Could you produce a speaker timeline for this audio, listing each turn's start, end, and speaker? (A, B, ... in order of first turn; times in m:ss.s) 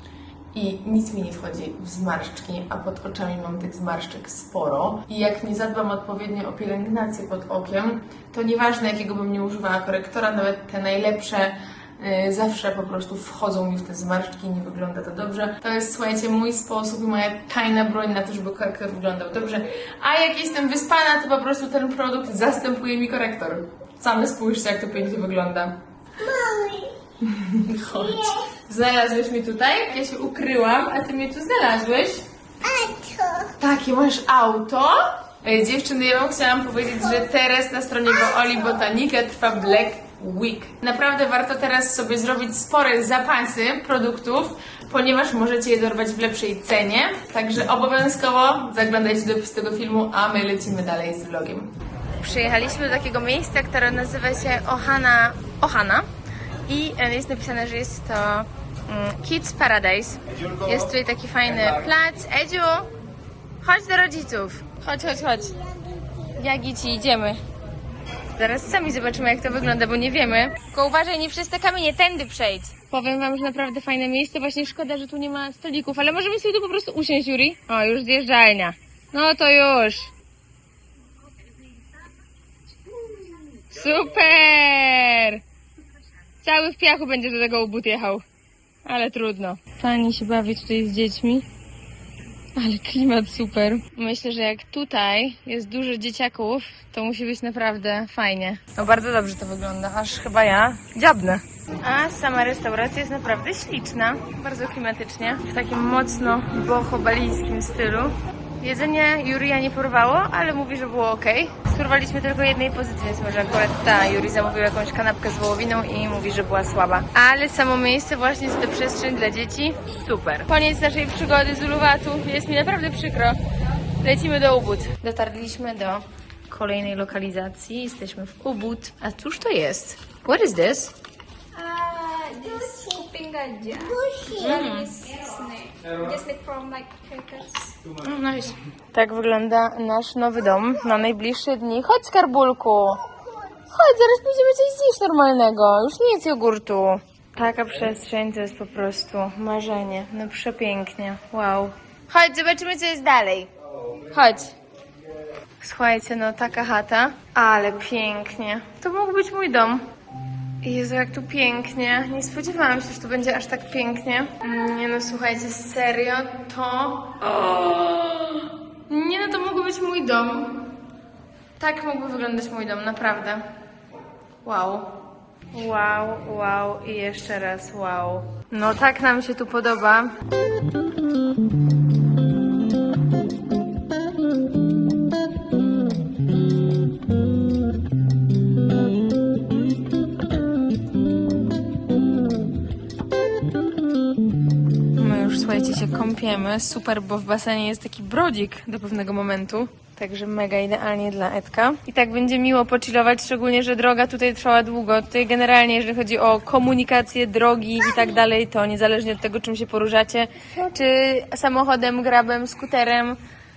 0:00.5-0:25.8 A
0:26.2-0:26.9 B
0:27.2-0:32.2 A
0:27.9-0:28.4 B
0:32.6-0:33.5 B
0:33.6-0:56.1 A
0:56.7-1:02.9 A
1:03.6-1:05.6 A
1:05.6-1:06.2 B
1:06.4-1:07.4 A
1:08.4-1:20.1 A
1:23.6-1:25.4 A
1:26.4-1:28.2 A
1:28.8-1:31.5 A
1:32.6-2:03.4 A
2:04.0-2:11.0 A
2:11.6-2:17.8 C
2:13.9-2:14.2 B
2:14.4-2:15.0 A
2:18.0-2:23.0 A
2:23.7-2:33.5 A
2:34.1-2:34.5 A
2:35.6-2:39.9 A
2:40.6-2:50.7 A
2:51.6-2:53.4 A
2:54.4-3:00.2 A
3:14.9-3:33.2 A